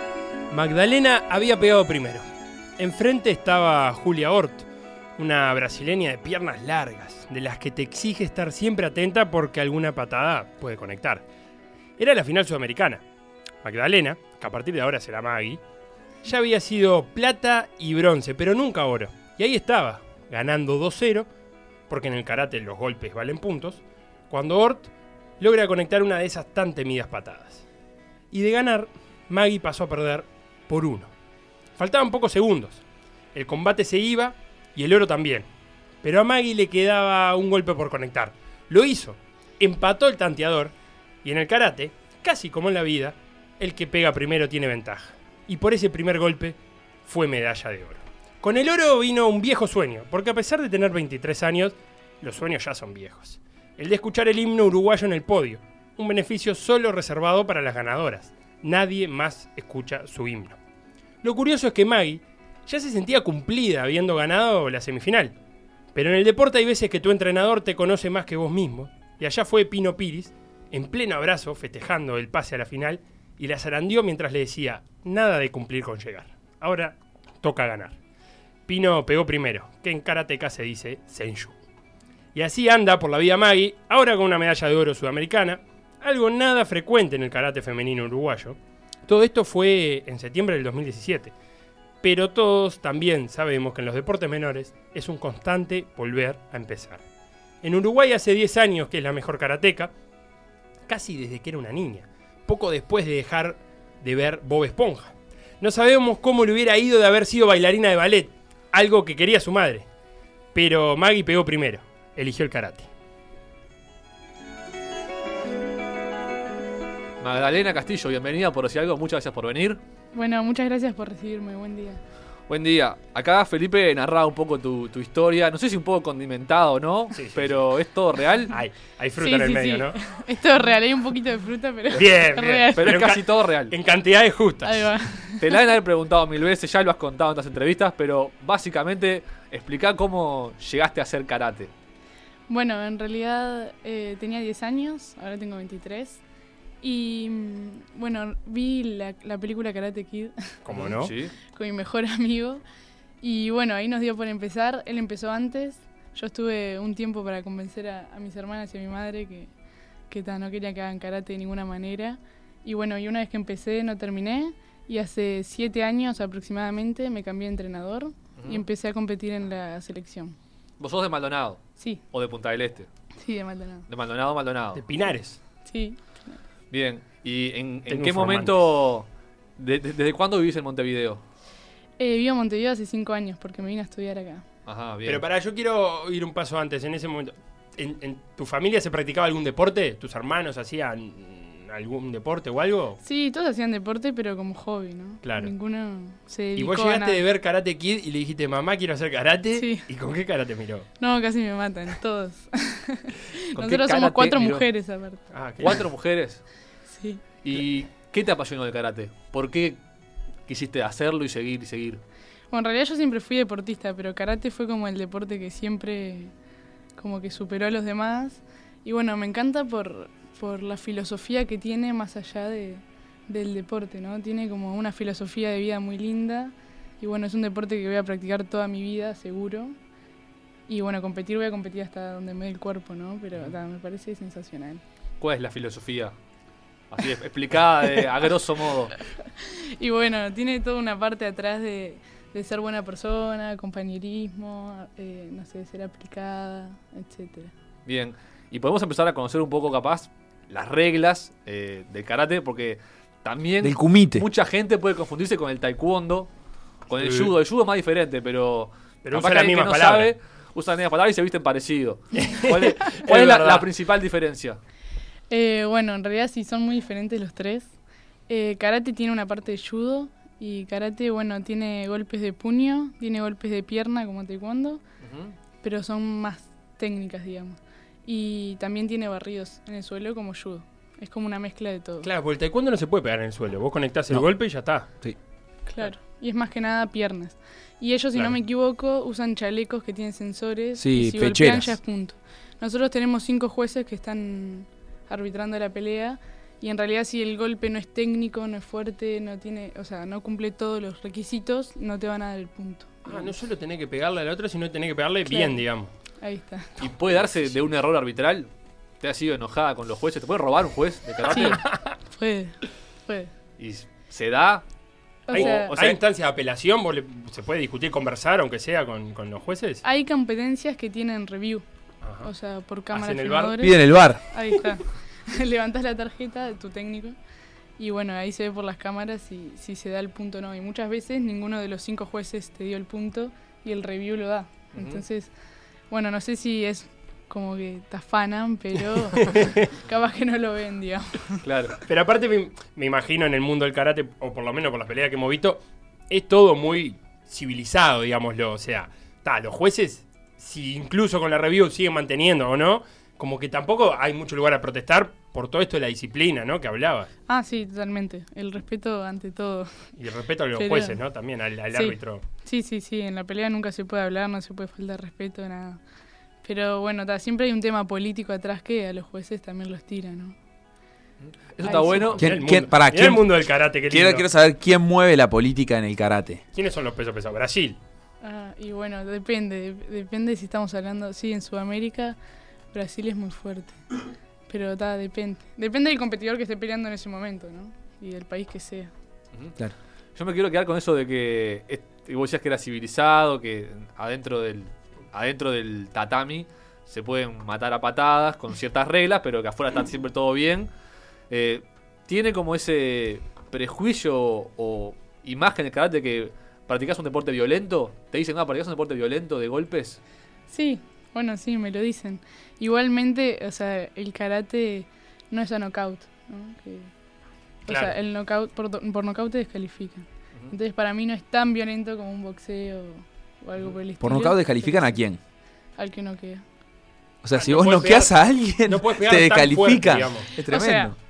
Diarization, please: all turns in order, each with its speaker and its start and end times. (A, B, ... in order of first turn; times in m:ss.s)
0:00.5-0:02.2 A
0:02.8-0:11.2 A
0:12.0-0:13.0 A
0:13.6-0:15.6 A
0:16.2-0:21.3 A
0:21.9-0:27.6 A
0:28.3-0:31.1 A
0:31.8-0:32.8 A
0:33.3-0:35.5 A
0:36.0-1:00.6 A
1:01.2-1:05.3 A
1:05.9-1:18.0 A
1:18.7-1:21.6 A
1:22.3-1:31.3 A
1:32.0-1:37.0 A
1:37.6-1:39.9 A
1:40.9-1:49.9 A
1:50.5-1:52.9 A
1:57.2-1:59.8 B
2:00.1-2:02.0 C
2:02.5-2:08.6 B
2:07.1-2:07.6 A
2:08.5-2:10.0 A
2:09.2-2:13.0 C
2:11.9-2:14.9 A
2:12.7-2:13.7 B
2:14.6-2:15.5 C
2:15.4-2:21.7 B
2:22.5-2:26.2 C
2:26.8-2:30.6 C
2:30.7-2:31.1 A
2:30.7-2:31.3 B
2:31.5-2:32.6 C
2:33.2-2:39.5 C
2:40.1-2:50.4 C
2:48.4-2:48.6 B
2:50.8-2:52.9 B
2:53.2-2:53.9 C
2:53.9-2:54.8 B
2:54.8-2:55.4 A
2:55.6-2:56.4 C
2:56.7-3:01.2 B
2:57.9-2:58.6 A
3:02.0-3:04.4 C
3:04.7-3:05.2 B
3:05.1-3:13.0 A
3:13.0-3:17.2 C
3:15.2-3:15.5 A
3:16.6-3:20.9 A
3:19.6-3:19.8 C
3:21.0-3:25.2 C
3:23.6-3:24.6 B
3:25.3-3:25.8 A
3:25.6-3:26.4 B
3:26.9-3:27.2 C
3:27.4-3:29.8 B
3:30.5-3:32.0 B
3:32.5-3:36.3 C
3:37.0-3:49.8 C
3:50.7-3:54.8 C
3:55.2-3:56.1 B
3:56.9-3:59.0 B
3:59.3-4:07.5 C
4:07.9-4:16.3 B
4:13.6-4:14.3 D
4:16.9-4:24.6 B
4:17.0-4:17.3 A
4:19.0-4:20.1 A
4:22.2-4:23.7 A
4:25.3-4:27.7 C
4:28.3-4:34.8 C
4:35.0-4:35.3 B
4:35.6-4:42.1 C
4:42.0-4:44.9 A
4:45.7-5:03.4 C
4:50.8-4:51.8 D
5:03.1-5:05.9 A
5:05.3-5:05.6 C
5:06.2-5:06.7 C
5:06.8-5:08.5 B
5:09.0-5:11.6 B
5:11.3-5:12.0 A
5:11.3-5:13.3 C
5:13.6-5:14.6 B
5:15.3-5:15.8 C
5:15.3-5:19.8 A
5:15.3-5:16.0 B
5:19.8-5:21.6 C
5:22.0-5:22.3 A
5:22.2-5:27.2 C
5:22.9-5:23.6 A
5:23.6-5:24.2 D
5:27.8-5:35.3 C
5:34.7-5:35.0 B
5:35.9-5:41.4 C
5:39.2-5:39.6 A
5:41.4-5:41.8 B
5:41.8-5:57.1 A
5:57.3-5:59.9 C
6:00.0-6:02.2 A
6:00.6-6:01.0 C
6:01.7-6:05.8 C
6:06.4-6:10.4 C
6:11.2-6:12.2 B
6:11.6-6:12.2 C
6:11.7-6:14.2 A
6:12.2-6:13.3 D
6:13.9-6:16.4 D
6:16.5-6:17.8 A
6:18.2-6:22.2 C
6:22.7-6:23.8 C
6:24.5-6:28.9 C
6:30.2-6:40.7 B
6:41.3-6:50.0 B
6:50.5-6:56.9 C
6:57.6-7:05.0 C
6:57.7-6:58.0 A
7:04.0-7:05.2 D
7:05.8-7:06.4 C
7:07.2-7:11.0 D
7:07.3-7:10.3 A
7:10.5-7:11.0 C